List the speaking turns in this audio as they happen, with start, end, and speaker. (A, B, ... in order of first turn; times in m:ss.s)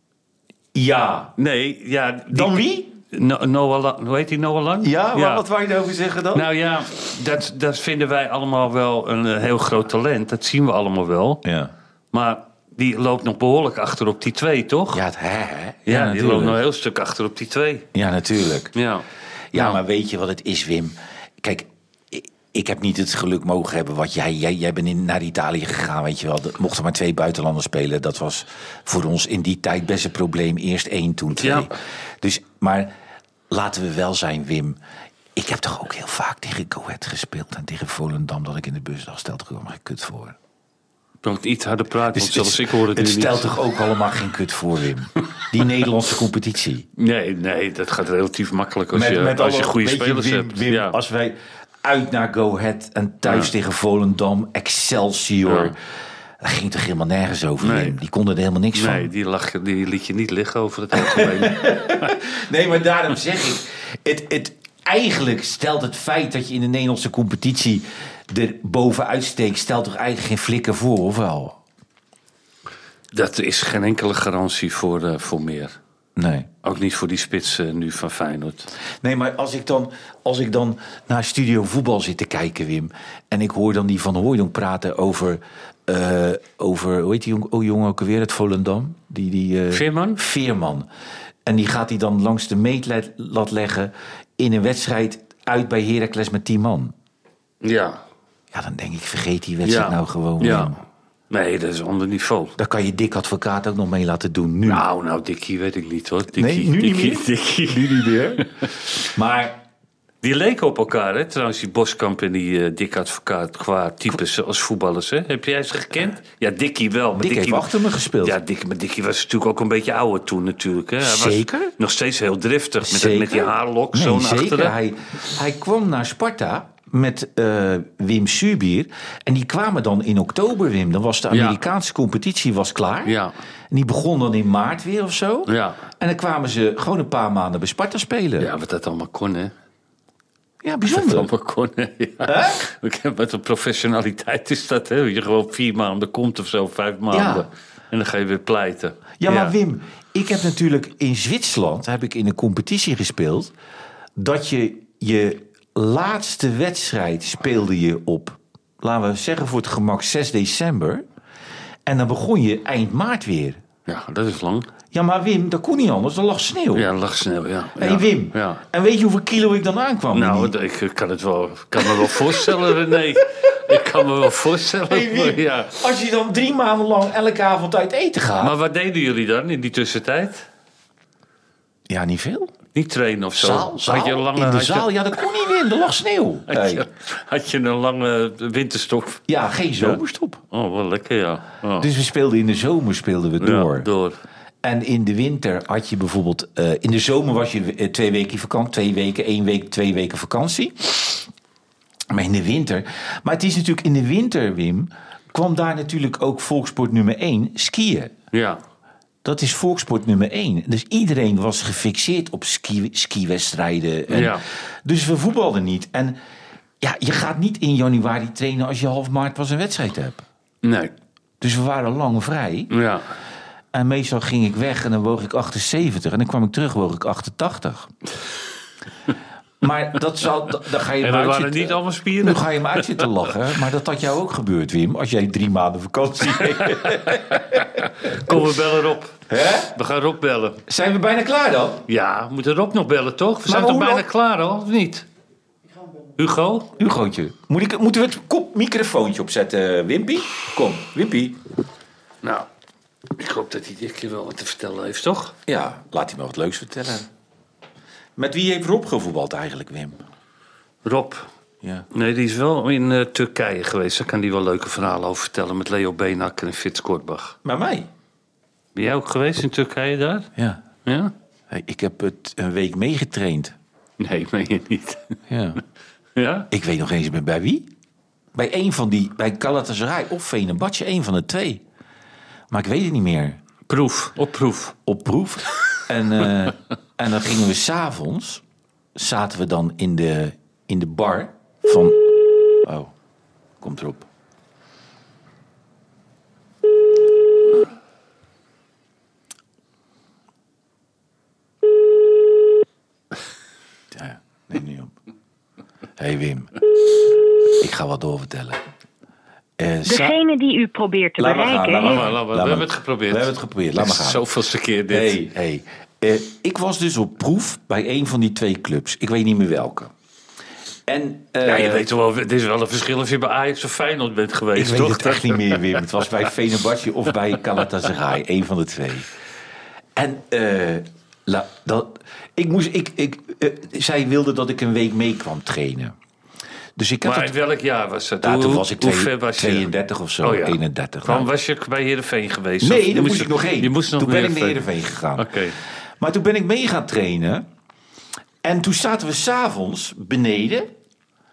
0:00.7-0:01.3 A
0:01.4-0:05.4 B
0:02.3-0:02.9 A
0:04.8-0:06.5 A
0:06.3-0:11.4 B
0:11.4-0:11.7 A
0:12.1-0:15.0 B
0:14.9-0:16.6 A
0:15.9-0:17.9 B
0:17.9-0:18.7 A
0:18.7-0:19.8 B
0:19.5-0:32.9 A
0:31.4-0:31.7 B
0:33.5-0:34.8 A
0:35.4-0:40.4 A
0:41.2-0:43.6 B
0:42.1-0:46.9 A
0:47.0-0:51.0 B
0:48.9-0:55.8 A
0:53.2-0:53.5 B
0:55.4-0:55.8 B
0:56.4-0:59.1 A
0:57.6-0:58.0 B
0:58.7-1:02.2 B
1:00.9-1:11.6 A
1:13.1-1:15.8 B
1:16.2-1:16.5 A
1:16.6-1:18.7 B
1:19.0-1:30.9 A
1:29.7-1:30.2 B
1:31.5-1:36.9 A
1:37.6-1:38.0 B
1:38.5-1:40.8 A
1:39.6-1:40.7 B
1:41.3-1:42.6 B
1:42.6-1:44.9 A
1:44.6-1:48.7 B
1:46.3-1:49.6 A
1:50.2-1:57.7 B
1:57.1-1:58.4 A
1:58.2-2:04.8 B
2:01.0-2:01.7 A
2:02.8-2:13.2 A
2:11.3-2:11.6 B
2:13.0-2:13.3 B
2:13.7-2:18.5 A
2:15.5-2:15.8 B
2:18.4-2:19.6 B
2:20.6-2:21.3 A
2:20.9-2:29.6 B
2:22.2-2:22.6 A
2:27.1-2:27.5 A
2:29.2-2:33.5 A
2:34.2-2:41.0 A
2:41.9-2:43.6 A
2:43.9-2:44.7 B
2:44.9-2:46.9 A
2:46.7-2:48.6 B
2:47.8-2:50.5 A
2:50.1-2:55.8 B
2:51.8-2:52.2 A
2:54.9-2:58.6 A
2:58.4-3:00.5 B
3:01.9-3:02.5 A
3:02.7-3:05.0 B
3:03.4-3:06.9 A
3:06.5-3:09.2 B
3:09.3-3:10.4 A
3:09.8-3:11.9 B
3:11.8-3:13.9 A
3:13.4-3:14.2 B
3:14.6-3:21.3 A
3:22.1-3:28.1 A
3:28.3-3:28.6 B
3:29.2-3:36.2 A
3:34.1-3:34.4 B
3:36.8-3:40.2 A
3:40.6-3:40.9 B
3:41.4-3:42.7 A
3:42.7-3:43.1 B
3:43.7-3:47.9 A
3:49.6-3:58.4 A
3:51.0-3:53.1 B
3:56.4-4:00.6 B
3:59.3-3:59.7 A
4:00.7-4:01.8 A
4:01.9-4:05.1 B
4:03.5-4:04.1 A
4:06.2-4:06.7 B
4:06.8-4:11.4 A
4:13.1-4:15.4 B
4:15.5-4:17.1 A
4:18.2-4:20.0 A
4:20.8-4:21.3 B
4:21.6-4:21.9 A
4:21.9-4:27.4 B
4:27.4-4:27.9 A
4:28.8-4:30.3 B
4:30.4-4:30.6 A
4:30.8-4:31.1 B
4:31.5-4:33.6 A
4:34.0-4:35.2 B
4:35.3-4:35.6 A
4:36.2-4:36.5 B
4:36.5-4:37.7 A
4:38.3-4:41.6 A
4:42.5-4:43.4 A
4:43.7-4:44.8 B
4:44.9-4:48.4 A
4:49.0-4:52.9 A
4:53.6-4:54.1 A
5:03.9-5:04.9 A
5:06.0-5:06.5 A
5:07.5-5:08.6 A
5:09.6-5:10.2 A
5:09.9-5:12.0 C
5:11.2-5:14.2 A
5:11.7-5:15.2 B
5:14.9-5:19.9 A
5:20.9-5:21.9 A
5:21.4-5:25.8 B
5:24.5-5:29.1 A
5:30.0-5:36.0 A
5:36.8-5:37.3 A
5:37.0-5:39.7 B
5:38.2-5:41.3 A
5:40.2-5:44.6 B
5:42.6-5:45.4 A
5:45.2-5:45.6 B
5:46.0-5:47.5 A
5:48.4-5:50.7 A